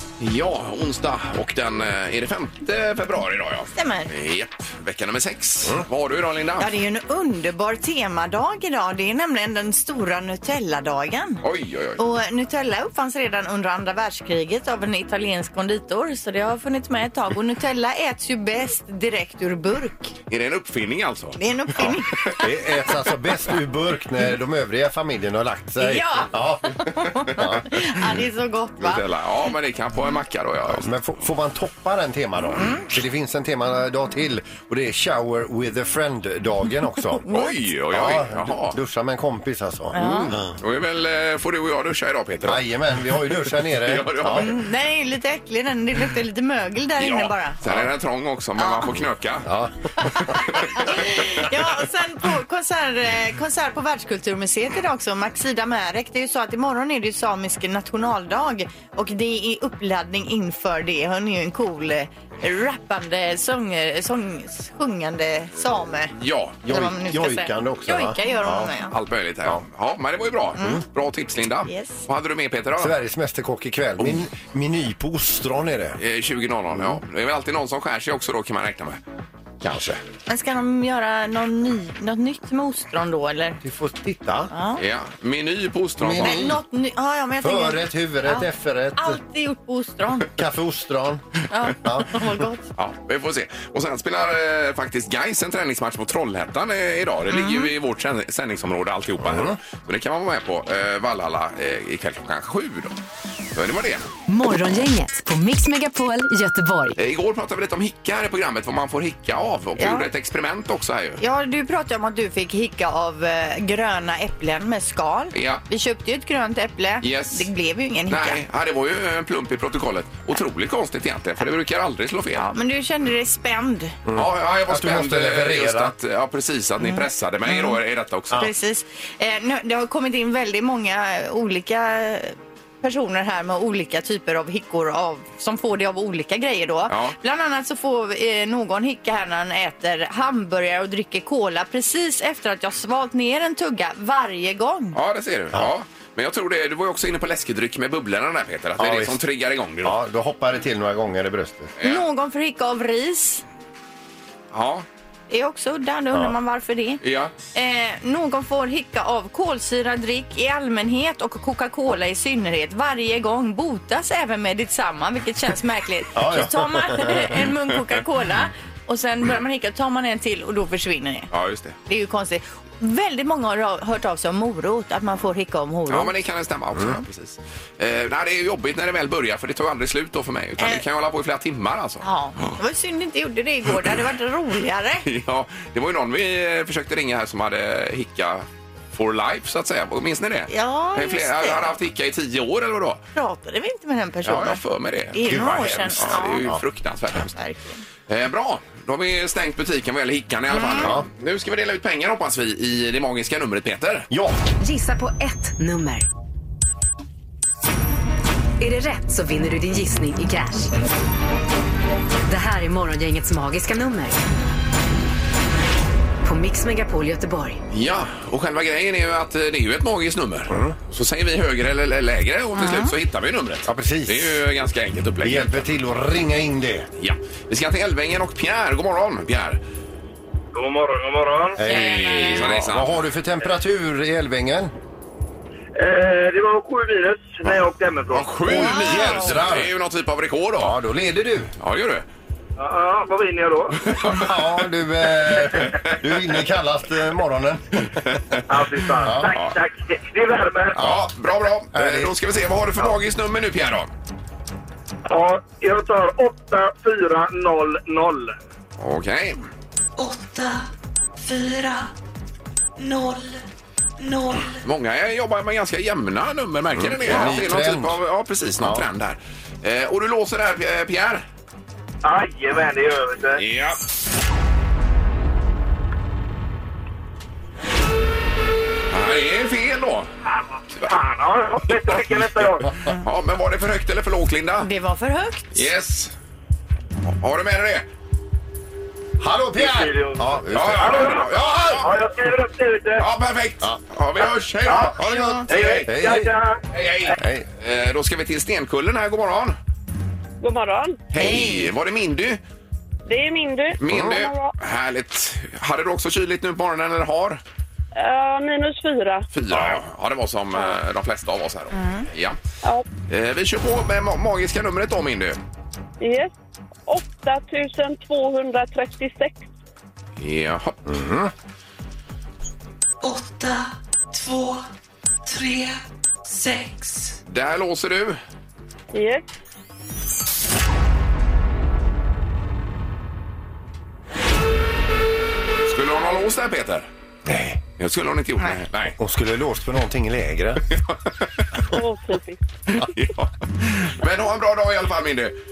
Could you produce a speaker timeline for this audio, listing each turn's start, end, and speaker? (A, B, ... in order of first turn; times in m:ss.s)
0:00.2-0:06.7 A
0:03.7-0:04.1 B
0:06.6-0:11.4 B
0:11.4-0:12.0 A
0:12.0-0:20.1 B
0:20.3-0:22.4 A
0:21.4-0:22.5 B
0:22.4-0:27.9 C
0:25.8-0:29.0 B
0:28.8-0:30.9 A
0:30.7-0:37.2 C
0:37.1-0:37.7 B
0:37.3-0:38.8 A
0:37.9-0:39.9 C
0:39.9-0:40.4 B
0:40.0-0:42.6 A
0:42.4-0:44.5 C
0:43.7-0:44.6 A
0:44.3-0:47.6 B
0:47.0-0:49.5 A
0:48.6-0:48.8 B
0:49.4-0:50.6 C
0:50.0-1:06.1 B
0:50.6-0:50.9 A
1:06.1-1:06.6 A
1:06.6-1:08.7 C
1:06.7-1:08.9 B
1:08.9-1:13.0 A
1:11.6-1:12.0 B
1:12.8-1:16.0 C
1:16.0-1:19.0 A
1:19.6-1:20.0 A
1:20.3-1:23.6 B
1:23.6-1:24.5 C
1:24.5-1:24.8 B
1:24.8-1:26.5 A
1:26.0-1:26.6 C
1:26.2-1:30.3 B
1:27.4-1:29.2 C
1:30.3-1:31.2 C
1:31.5-1:32.6 B
1:31.8-1:32.2 C
1:32.8-1:43.0 A
1:37.3-1:37.7 B
1:39.2-1:39.6 C
1:43.5-1:44.1 A
1:44.3-1:47.0 D
1:47.0-1:51.2 A
1:49.8-1:50.1 B
1:51.2-1:58.4 B
1:55.3-1:55.6 A
1:57.0-1:57.5 A
1:58.1-2:02.4 A
2:02.4-2:04.0 B
2:04.0-2:05.9 C
2:04.1-2:08.5 A
2:06.8-2:07.8 B
2:08.3-2:25.0 B
2:16.9-2:17.2 A
2:24.9-2:30.0 A
2:28.8-2:29.2 C
2:29.8-2:31.7 C
2:31.8-2:32.0 A
2:31.8-2:33.4 B
2:34.5-2:34.8 A
2:35.3-2:37.0 B
2:37.0-2:37.3 A
2:37.5-2:51.3 B
2:46.1-2:47.4 C
2:51.3-2:51.8 A
2:51.8-2:56.1 B
2:55.9-3:02.0 A
2:56.8-2:57.0 C
3:00.6-3:00.8 B
3:02.0-3:05.0 B
3:05.0-3:13.0 A
3:10.5-3:11.7 B
3:13.1-3:14.6 B
3:14.2-3:17.3 A
3:15.1-3:16.4 B
3:15.2-3:16.6 C
3:17.3-3:17.8 B
3:18.1-3:24.1 A
3:20.5-3:20.9 B
3:20.7-3:21.0 C
3:24.1-3:24.4 C
3:24.6-3:26.1 D
3:28.6-3:30.7 D
3:32.2-3:34.2 D
3:36.2-3:37.6 D
3:37.7-3:45.9 A
3:40.5-3:40.8 C
3:42.5-3:42.9 B
3:43.6-3:44.4 C
3:45.2-3:46.9 C
3:47.0-3:49.6 A
3:50.5-3:51.6 E
3:51.6-3:54.7 C
3:51.7-3:53.0 A
3:51.7-3:52.4 B
3:55.8-3:58.3 E
3:58.1-4:00.7 A
3:58.4-3:59.7 C
3:58.5-3:59.3 B
4:00.6-4:01.5 C
4:01.6-4:02.0 A
4:02.6-4:03.8 E
4:03.9-4:04.3 A
4:03.9-4:07.9 C
4:05.6-4:05.9 A
4:08.0-4:08.4 A
4:08.5-4:10.8 E
4:09.0-4:09.3 C
4:09.2-4:09.6 A
4:10.8-4:11.1 C
4:10.8-4:13.9 A
4:11.7-4:12.1 C
4:15.0-4:18.3 E
4:18.8-4:19.4 A
4:20.0-4:20.6 F
4:21.2-4:21.9 F
4:22.8-4:23.4 F
4:24.0-4:24.6 F
4:24.6-4:31.2 A
4:26.7-4:28.0 C
4:28.6-4:28.8 C
4:32.0-4:33.4 E
4:33.4-4:33.8 A
4:38.9-4:40.1 A
4:40.8-4:42.7 E
4:43.0-4:44.7 A
4:44.6-4:45.7 B
4:45.5-4:46.1 A
4:47.0-4:47.8 A
4:49.2-4:51.9 C
4:49.6-4:50.2 E
4:50.5-4:51.9 A
4:50.8-4:53.0 E
4:53.0-4:55.9 A
4:54.7-4:54.9 E
4:54.8-4:56.3 C
4:55.0-4:55.4 B
4:55.5-4:56.6 E
4:56.7-4:59.6 A
4:57.1-4:57.5 C
5:00.4-5:01.0 G
5:01.1-5:02.4 A
5:01.2-5:01.6 C
5:01.2-5:01.5 B
5:03.0-5:04.5 G
5:03.8-5:07.4 A
5:03.9-5:04.2 C
5:07.9-5:09.2 G
5:09.3-5:12.4 A
5:09.5-5:09.8 C
5:11.7-5:12.1 B
5:13.1-5:15.4 A
5:16.0-5:16.3 G
5:16.8-5:19.4 G
5:20.2-5:20.8 A
5:20.8-5:21.3 C
5:23.0-5:24.6 F
5:25.2-5:27.2 F
5:27.3-5:28.2 A
5:28.9-5:29.3 G
5:35.7-5:36.9 A
5:37.3-5:37.6 C
5:37.8-5:39.0 A
5:39.0-5:40.6 C
5:41.7-5:42.4 G
5:42.7-5:45.4 A